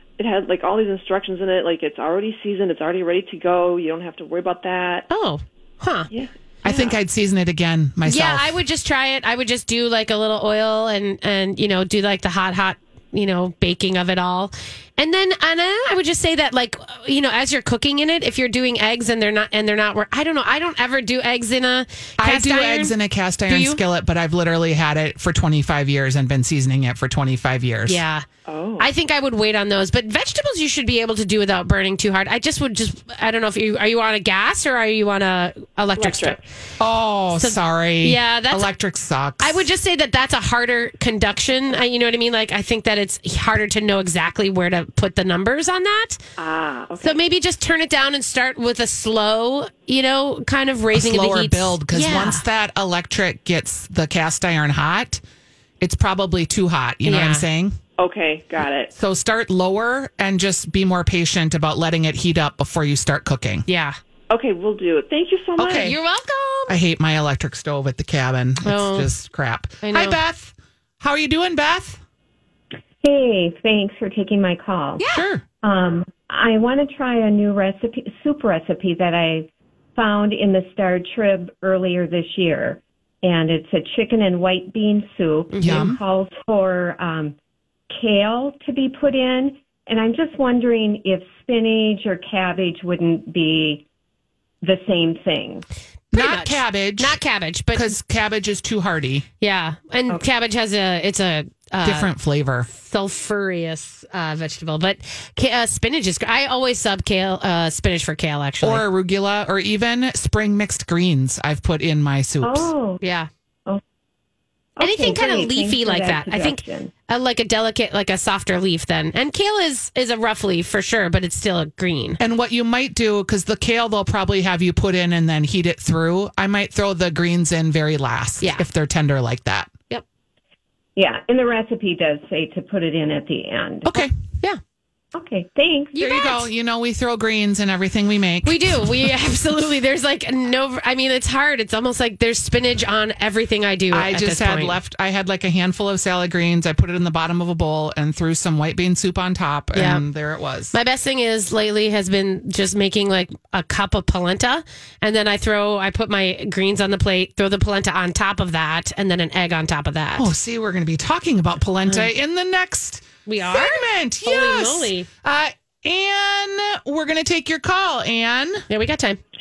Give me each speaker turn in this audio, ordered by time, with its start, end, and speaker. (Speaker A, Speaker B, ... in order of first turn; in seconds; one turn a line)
Speaker A: 0.2-5.0
Speaker B: 5.1-6.1
Speaker A: 6.1-6.9
Speaker C: 6.6-8.6
Speaker B: 8.1-22.9
Speaker C: 22.2-28.0
Speaker B: 23.5-23.8
Speaker B: 27.9-28.3
Speaker A: 28.4-28.9
Speaker B: 28.8-36.4
Speaker A: 36.0-36.4
Speaker C: 36.8-39.6
Speaker B: 37.3-38.7
Speaker B: 39.4-46.2
Speaker A: 46.4-47.2
Speaker B: 47.0-52.4
Speaker C: 50.9-55.2
Speaker C: 55.8-57.8
Speaker B: 57.0-57.5
Speaker A: 58.0-58.9
Speaker C: 58.9-63.6
Speaker B: 63.7-64.0
Speaker A: 64.3-66.0
Speaker C: 65.6-66.0
Speaker B: 65.7-66.8
Speaker C: 66.7-72.0
Speaker B: 68.6-69.1
Speaker B: 69.8-70.2
Speaker D: 73.0-75.0
Speaker B: 75.0-75.2
Speaker C: 75.1-75.4
Speaker D: 75.6-87.4
Speaker B: 85.5-85.9
Speaker C: 85.6-86.0
Speaker D: 87.9-93.9
Speaker D: 94.6-95.6
Speaker C: 96.1-97.2
Speaker B: 96.1-98.0
Speaker C: 97.7-99.3
Speaker B: 99.4-102.1
Speaker C: 101.8-102.7
Speaker B: 102.7-108.8
Speaker C: 108.6-112.7
Speaker D: 112.4-113.0
Speaker B: 113.0-113.3
Speaker D: 114.8-116.9
Speaker B: 114.8-122.2
Speaker C: 122.2-129.7
Speaker D: 130.9-134.1
Speaker D: 135.1-135.9
Speaker B: 135.9-136.4
Speaker C: 136.0-138.9
Speaker B: 138.4-144.8
Speaker C: 143.9-150.7
Speaker B: 149.7-150.0
Speaker B: 150.7-160.3
Speaker C: 160.2-168.6
Speaker B: 163.3-165.1
Speaker B: 168.7-169.2